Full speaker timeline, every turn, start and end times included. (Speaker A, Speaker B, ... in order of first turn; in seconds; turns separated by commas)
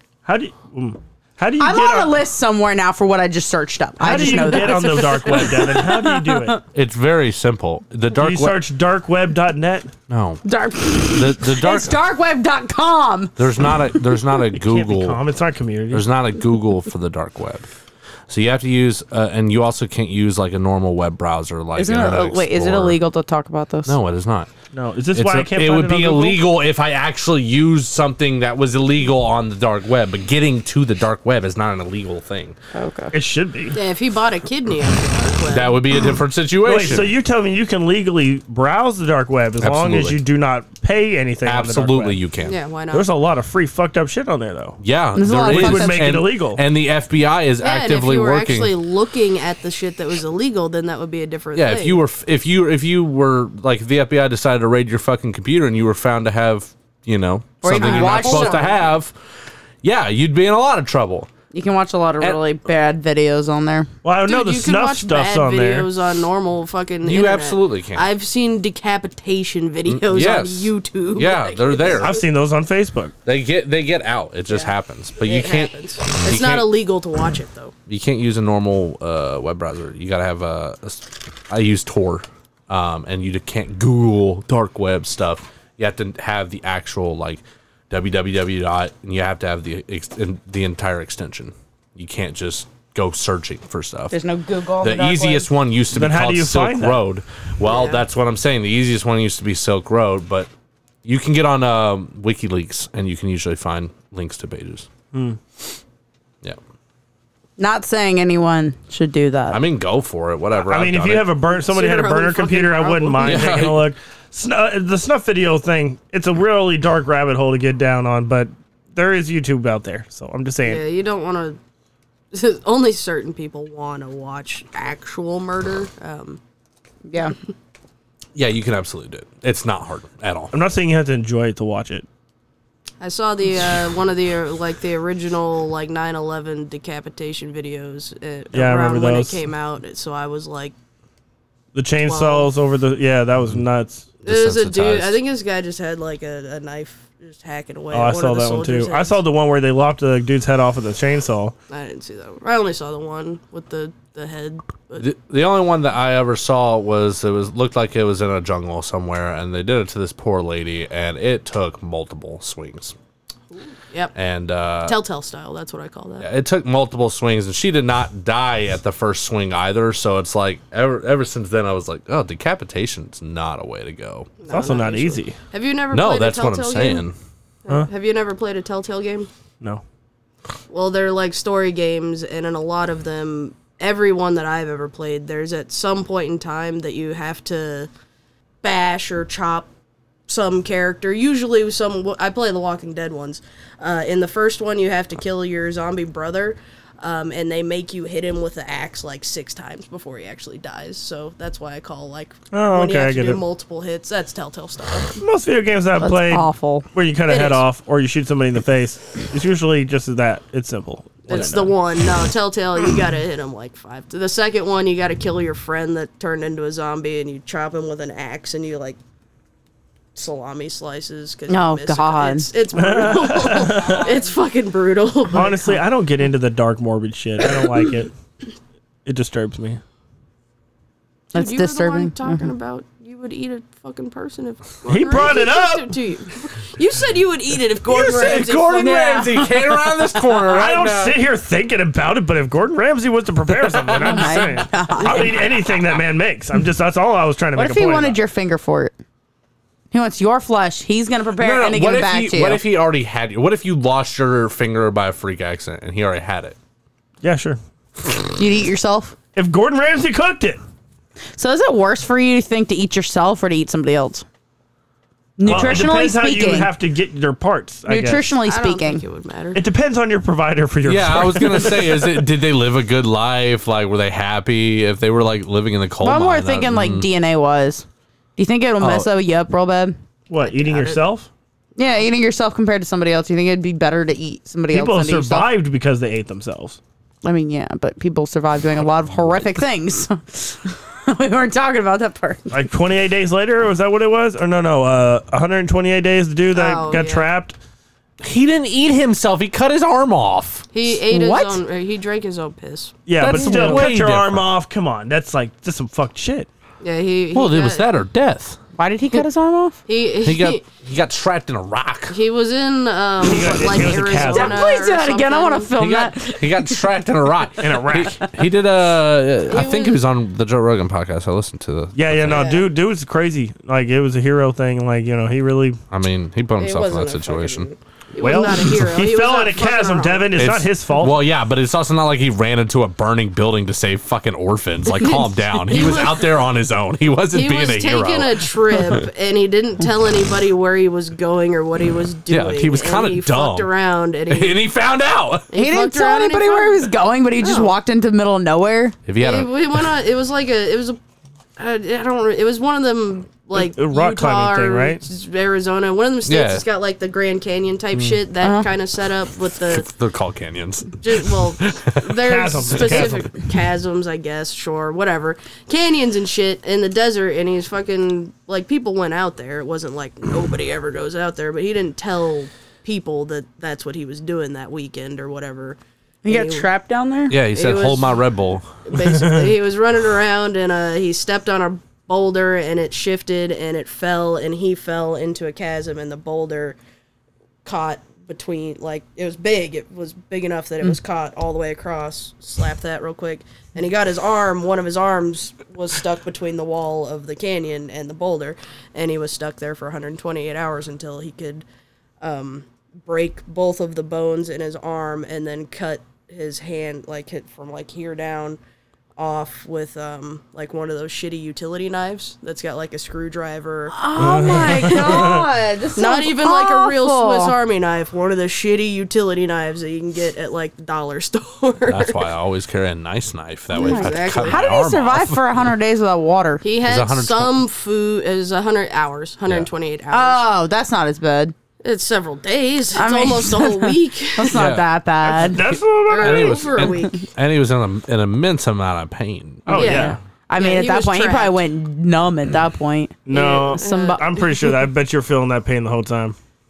Speaker A: 0.2-2.1, Speaker B: 1.6-6.6, Speaker A: 4.0-6.6, Speaker C: 6.7-8.6, Speaker A: 8.2-9.9, Speaker C: 10.1-10.4, Speaker B: 10.4-13.4, Speaker C: 11.0-12.0, Speaker C: 13.4-15.2, Speaker A: 14.6-16.1, Speaker C: 15.9-17.7, Speaker C: 18.3-23.0, Speaker B: 21.8-23.9, Speaker C: 23.9-24.5, Speaker A: 24.7-26.4, Speaker C: 25.1-32.6, Speaker B: 32.7-33.1, Speaker A: 33.1-33.8, Speaker D: 33.7-35.8, Speaker C: 35.5-37.1, Speaker A: 36.6-42.2, Speaker C: 39.6-40.2, Speaker C: 41.4-42.6, Speaker D: 42.4-43.1, Speaker A: 42.9-44.8, Speaker C: 44.8-48.7, Speaker B: 45.2-46.2, Speaker A: 45.4-46.6, Speaker D: 47.6-52.0, Speaker C: 51.5-59.2, Speaker B: 57.6-58.7, Speaker D: 57.7-58.8, Speaker C: 59.8-61.3, Speaker B: 61.5-63.9, Speaker A: 64.0-65.9, Speaker D: 64.2-72.2, Speaker C: 67.0-68.1, Speaker C: 69.9-72.2, Speaker A: 72.0-73.1, Speaker C: 73.2-76.7, Speaker D: 74.5-77.7, Speaker C: 77.9-94.2, Speaker B: 94.1-95.5, Speaker C: 94.8-100.5, Speaker A: 95.9-97.0, Speaker D: 97.6-98.0, Speaker C: 101.0-104.9, Speaker A: 105.1-105.4, Speaker B: 107.6-109.6, Speaker C: 109.5-111.4, Speaker A: 110.6-120.8, Speaker D: 111.5-113.7, Speaker C: 113.2-113.9, Speaker D: 120.6-121.6, Speaker D: 122.3-126.4, Speaker B: 127.1-127.4, Speaker C: 128.3-130.5, Speaker A: 130.5-132.1, Speaker D: 133.0-140.7, Speaker A: 138.5-139.4, Speaker A: 141.7-144.1, Speaker D: 142.0-142.5, Speaker D: 144.2-149.2, Speaker C: 144.2-145.2, Speaker A: 147.9-151.6, Speaker D: 151.7-155.1, Speaker C: 155.0-163.0, Speaker D: 163.5-164.1, Speaker C: 164.2-165.0, Speaker D: 164.8-166.3, Speaker C: 166.2-174.3, Speaker D: 174.4-177.1, Speaker A: 174.5-175.3, Speaker C: 175.9-177.2, Speaker D: 177.7-179.3, Speaker D: 180.7-187.9, Speaker D: 188.6-189.7, Speaker D: 190.3-205.2, Speaker A: 202.5-203.4, Speaker A: 205.2-211.7, Speaker B: 206.0-206.9, Speaker D: 207.3-207.6, Speaker D: 211.3-219.0, Speaker D: 220.2-225.8, Speaker B: 221.5-222.5, Speaker A: 222.7-224.1, Speaker A: 225.3-228.1, Speaker A: 229.1-229.8, Speaker B: 231.3-232.5, Speaker D: 231.3-239.3, Speaker A: 234.9-235.9, Speaker C: 237.9-241.2, Speaker B: 238.7-239.7, Speaker A: 240.4-248.2, Speaker C: 243.6-244.4, Speaker B: 244.0-245.4, Speaker D: 245.0-245.3, Speaker B: 247.6-248.9, Speaker B: 249.9-252.6, Speaker C: 251.4-256.6, Speaker A: 257.2-257.6, Speaker B: 258.4-259.1, Speaker A: 259.4-260.6, Speaker B: 261.4-264.2, Speaker B: 265.4-266.7, Speaker C: 265.4-265.9, Speaker A: 265.4-268.2, Speaker B: 267.9-269.0, Speaker D: 268.5-269.6, Speaker A: 269.6-272.2, Speaker C: 270.8-277.1, Speaker B: 276.0-277.9, Speaker B: 278.4-280.0, Speaker C: 278.8-279.1, Speaker A: 280.3-281.3, Speaker D: 280.4-281.0, Speaker B: 281.8-285.5, Speaker A: 284.7-286.8, Speaker B: 287.2-292.6, Speaker A: 292.5-297.6, Speaker D: 296.5-297.3, Speaker C: 298.2-300.6, Speaker D: 300.7-303.0, Speaker B: 301.1-301.6, Speaker A: 303.1-306.5, Speaker C: 303.2-304.5, Speaker B: 303.2-303.9, Speaker D: 306.8-307.9, Speaker C: 307.3-308.6, Speaker B: 308.8-309.8, Speaker D: 309.9-310.6, Speaker C: 310.2-312.1, Speaker D: 312.1-315.7, Speaker A: 313.2-314.6, Speaker B: 314.2-316.9, Speaker C: 315.8-322.5, Speaker A: 317.6-318.2, Speaker D: 319.5-320.0, Speaker A: 321.9-325.8, Speaker D: 322.3-322.7, Speaker C: 325.9-327.7, Speaker D: 326.6-330.3, Speaker A: 328.2-331.2, Speaker C: 330.4-339.0, Speaker D: 335.7-336.3, Speaker D: 337.3-344.6, Speaker C: 342.3-343.7, Speaker C: 344.3-345.5, Speaker D: 345.5-347.7, Speaker B: 345.6-349.0, Speaker C: 349.1-349.9, Speaker D: 349.2-351.0, Speaker D: 351.6-359.9, Speaker A: 353.6-355.0, Speaker C: 356.3-356.6, Speaker B: 358.4-358.7, Speaker C: 359.7-363.2, Speaker D: 361.0-376.7, Speaker A: 362.2-363.2, Speaker B: 376.2-377.4, Speaker C: 377.3-378.7, Speaker D: 377.5-378.2, Speaker D: 378.9-386.8, Speaker A: 379.0-379.5, Speaker D: 387.6-401.6, Speaker D: 402.2-408.6, Speaker D: 409.2-415.4, Speaker B: 413.9-417.5, Speaker A: 414.2-415.4, Speaker D: 415.9-422.3, Speaker C: 421.9-425.6, Speaker D: 423.7-424.7, Speaker B: 423.8-426.6, Speaker D: 426.6-430.4, Speaker C: 426.8-427.6, Speaker B: 430.1-431.5, Speaker D: 431.8-434.6, Speaker B: 432.9-435.6, Speaker C: 434.5-434.9, Speaker A: 435.2-436.9, Speaker D: 436.1-437.3, Speaker C: 436.2-440.0, Speaker A: 439.7-440.2, Speaker D: 439.7-441.6, Speaker B: 439.8-444.4, Speaker A: 443.3-446.4, Speaker D: 443.3-444.2